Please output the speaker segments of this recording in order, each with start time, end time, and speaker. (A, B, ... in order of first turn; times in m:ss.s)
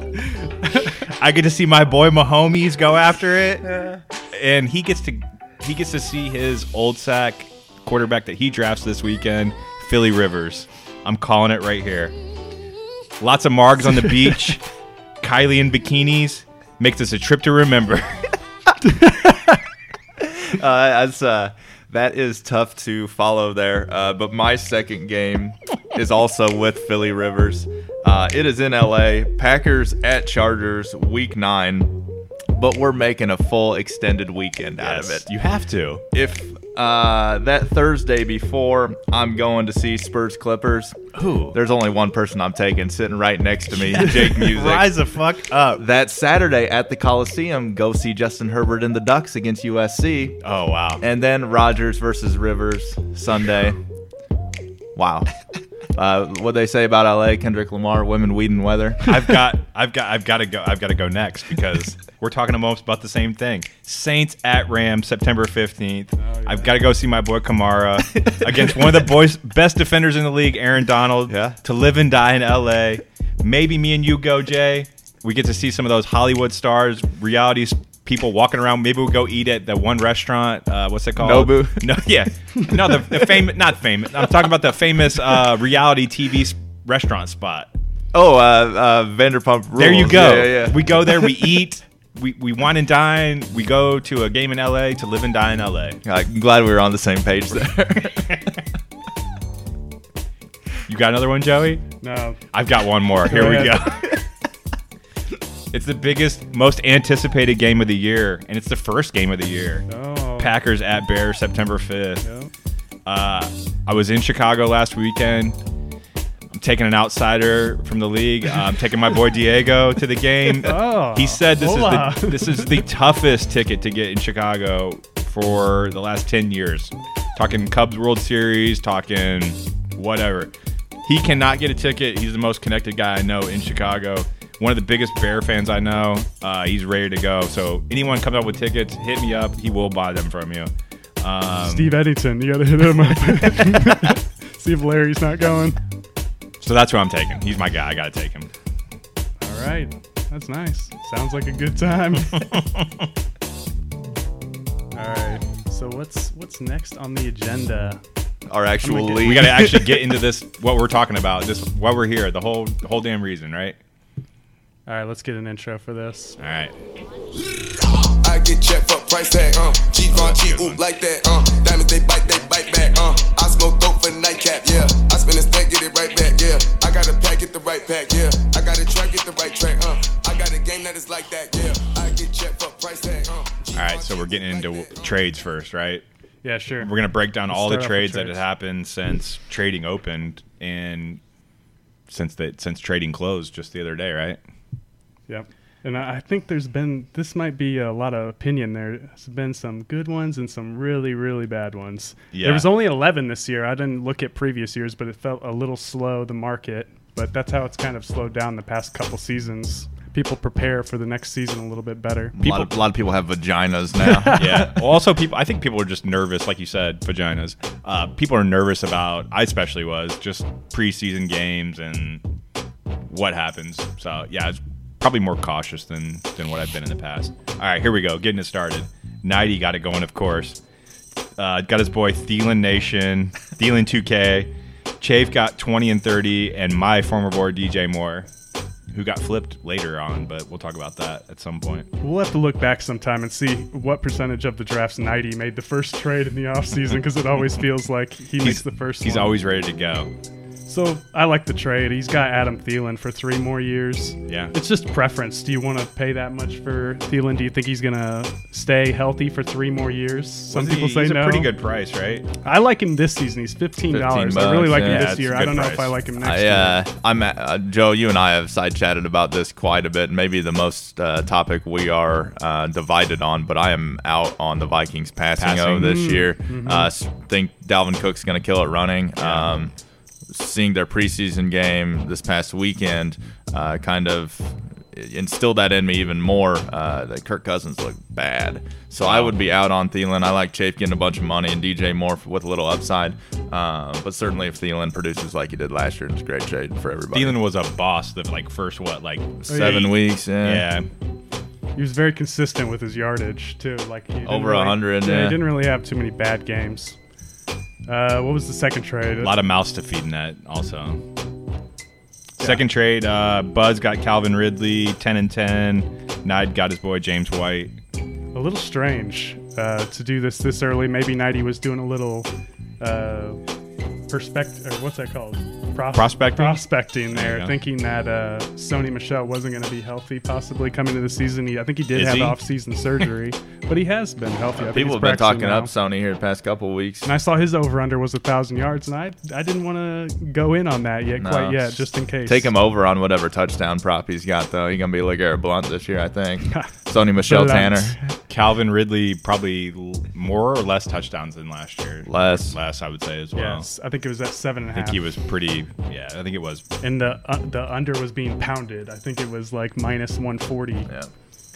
0:00.7-0:00.9 A
0:01.1-0:12.1 B
0:13.2-0:14.6 B
0:15.2-0:18.3 B
0:20.2-0:32.0 C
0:32.5-0:35.3 C
0:34.8-0:36.0 B
0:36.1-0:41.0 C
0:41.2-0:41.6 B
0:41.5-0:44.9 C
0:43.7-0:45.8 B
0:45.8-0:50.4 C
0:50.4-0:51.0 B
0:51.0-0:53.8 C
0:55.0-0:55.3 C
0:56.0-0:59.2 C
0:59.1-1:27.7 B
1:06.2-1:06.8 A
1:11.3-1:11.6 C
1:21.2-1:22.0 C
1:28.1-1:31.4 C
1:29.8-1:36.0 B
1:36.0-1:38.4 C
1:40.9-1:41.8 B
1:42.0-1:42.4 A
1:42.5-1:44.2 B
1:43.2-1:43.8 A
1:45.7-1:49.8 B
1:49.9-1:50.5 A
1:50.4-1:52.2 B
1:52.2-1:52.5 A
1:53.1-1:55.6 B
1:56.6-2:10.5 B
2:00.6-2:02.8 A
2:11.0-2:22.0 B
2:21.6-2:25.8 A
2:26.6-2:28.5 B
2:29.4-2:32.4 A
2:32.3-2:32.8 B
2:34.9-2:38.0 A
2:38.5-2:40.0 C
2:38.8-2:39.4 A
2:39.2-2:43.8 B
2:44.9-2:46.4 A
2:46.4-2:46.7 B
2:48.0-3:05.2 D
2:50.1-2:50.8 B
3:03.7-3:06.0 B
3:06.4-3:06.9 A
3:06.8-3:11.2 B
3:07.5-3:08.4 A
3:12.1-3:14.4 B
3:15.3-3:32.7 A
3:22.3-3:22.7 B
3:32.4-3:34.4 C
3:34.0-3:34.7 A
3:34.4-3:42.2 B
3:43.1-3:50.6 B
3:51.4-3:58.3 B
3:58.9-4:01.9 B
4:02.0-4:09.4 A
4:08.4-4:10.1 B
4:10.7-4:21.5 A
4:14.3-4:14.5 B
4:20.5-4:22.3 B
4:22.4-4:26.8 A
4:23.9-4:25.1 C
4:24.7-4:25.9 B
4:26.2-4:39.7 C
4:35.4-4:36.0 B
4:35.8-4:36.9 A
4:39.2-4:39.5 B
4:40.3-4:57.4 C
4:49.0-4:49.4 B
4:57.1-5:00.9 B
4:59.5-4:59.9 A
4:59.5-5:00.7 C
5:01.8-5:07.0 A
5:04.3-5:05.4 C
5:07.9-5:09.3 A
5:09.2-5:11.0 B
5:12.4-5:17.7 B
5:18.3-5:22.3 A
5:22.8-5:23.4 A
5:24.1-5:35.7 A
5:25.9-5:27.5 B
5:32.0-5:32.4 B
5:34.6-5:37.1 C
5:37.0-5:42.5 A
5:41.2-5:48.0 C
5:47.2-5:48.0 A
5:48.3-5:53.7 B
5:52.1-5:52.6 C
5:53.4-5:55.1 A
5:54.8-5:56.6 B
5:56.8-6:00.9 A